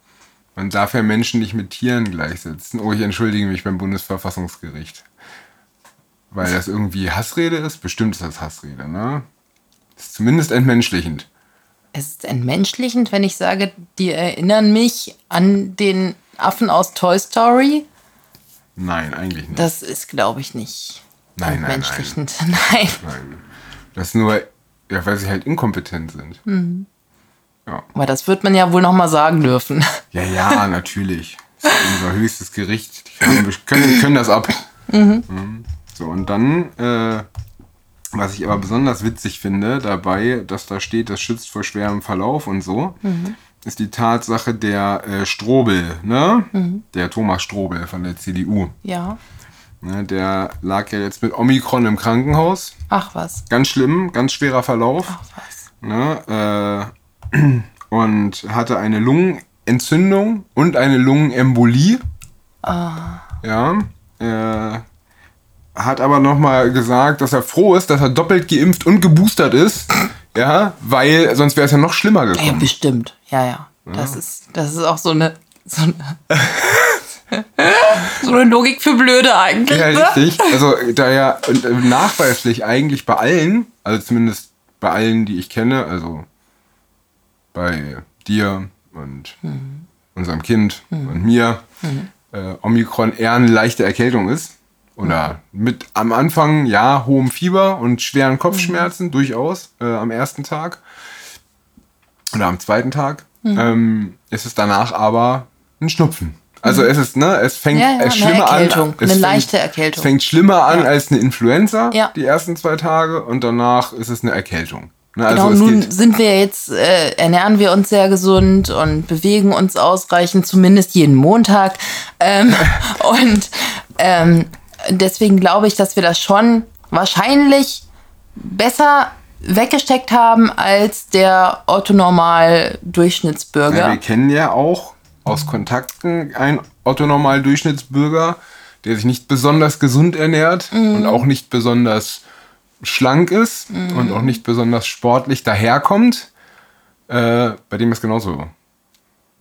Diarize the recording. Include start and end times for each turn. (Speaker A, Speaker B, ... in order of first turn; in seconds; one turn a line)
Speaker A: 0.6-5.1
Speaker A: 6.3-9.3
Speaker A: 10.0-11.3
Speaker B: 11.9-17.9
Speaker A: 18.8-19.7
Speaker B: 19.5-23.0
Speaker A: 21.4-22.2
Speaker A: 23.0-23.4
Speaker A: 23.9-26.4
Speaker B: 26.5-26.9
Speaker B: 27.9-30.0
Speaker A: 30.1-34.7
Speaker B: 34.9-35.2
Speaker A: 35.3-37.3
Speaker A: 38.1-43.0
Speaker B: 43.0-43.4
Speaker A: 43.6-48.8
Speaker B: 46.5-46.8
Speaker B: 48.8-49.2
Speaker A: 49.8-52.7
Speaker B: 52.9-53.4
Speaker A: 53.5-55.2
Speaker B: 55.1-55.6
Speaker A: 55.8-62.0
Speaker B: 62.6-63.3
Speaker A: 63.4-64.8
Speaker A: 65.8-72.7
Speaker B: 72.4-76.3
Speaker A: 73.9-74.2
Speaker A: 76.4-77.0
Speaker B: 77.3-80.6
Speaker A: 79.7-86.3
Speaker A: 87.5-89.4
Speaker B: 89.4-89.9
Speaker A: 90.2-91.6
Speaker B: 91.8-92.1
Speaker A: 92.3-100.8
Speaker B: 98.5-98.9
Speaker A: 102.3-115.9
Speaker B: 103.4-103.7
Speaker B: 107.7-110.1
Speaker B: 115.3-127.8
Speaker B: 128.4-134.0
Speaker A: 133.7-142.2
Speaker B: 140.7-141.2
Speaker A: 142.8-146.3
Speaker B: 143.7-144.4
Speaker A: 147.1-148.5